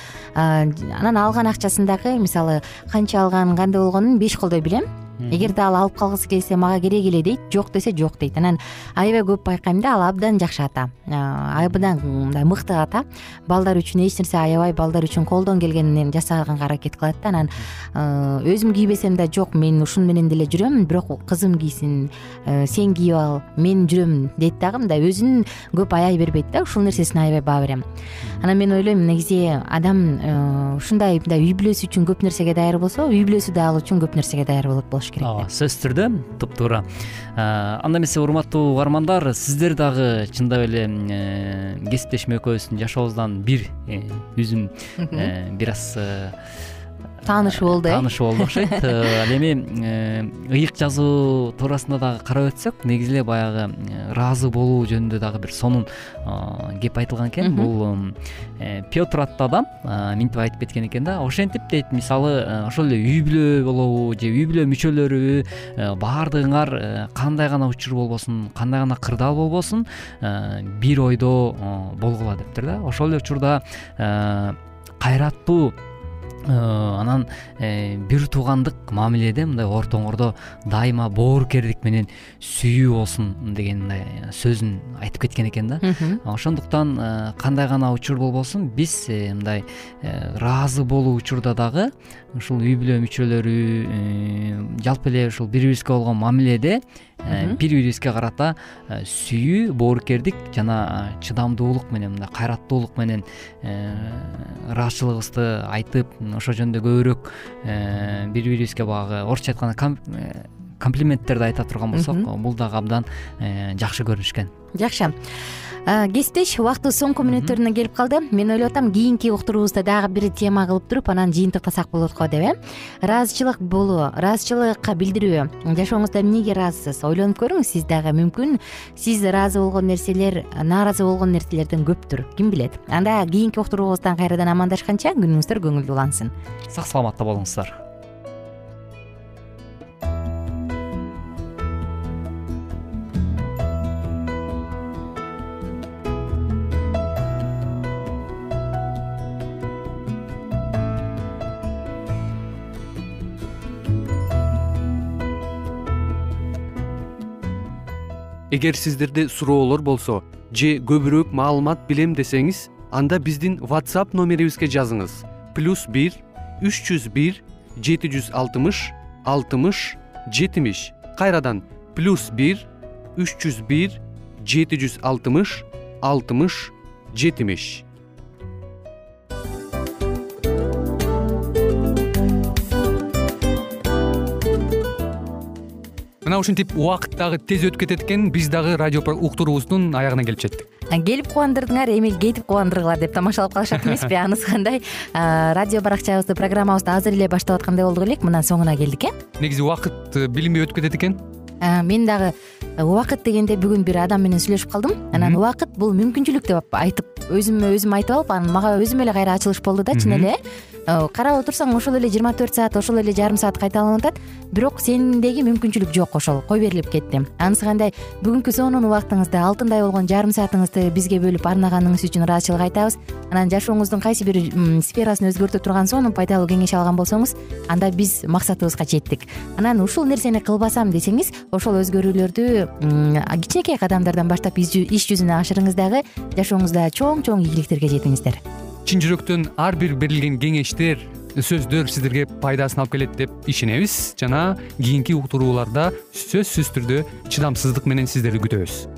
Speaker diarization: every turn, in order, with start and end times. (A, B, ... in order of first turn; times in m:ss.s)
0:00.4-0:27.8 A
0:05.2-0:05.5 B
0:28.4-0:35.4 A
0:35.2-0:36.8 B
0:37.4-0:46.4 B
0:45.0-0:45.3 A
0:47.2-0:48.8 A
0:47.5-1:15.8 B
0:57.4-0:57.7 A
1:16.5-1:54.5 B
1:25.8-1:26.2 A
1:37.3-1:37.6 A
1:51.9-1:52.3 A
1:54.8-1:55.1 A
1:55.9-2:16.3 A
1:57.2-1:57.6 B
2:16.7-2:17.8 B
2:38.5-2:57.8 C
3:06.2-3:10.7 C
3:10.9-3:19.2 A
3:19.4-3:21.2 C
3:21.6-3:58.4 A
3:29.9-3:30.3 C
3:58.8-4:08.9 C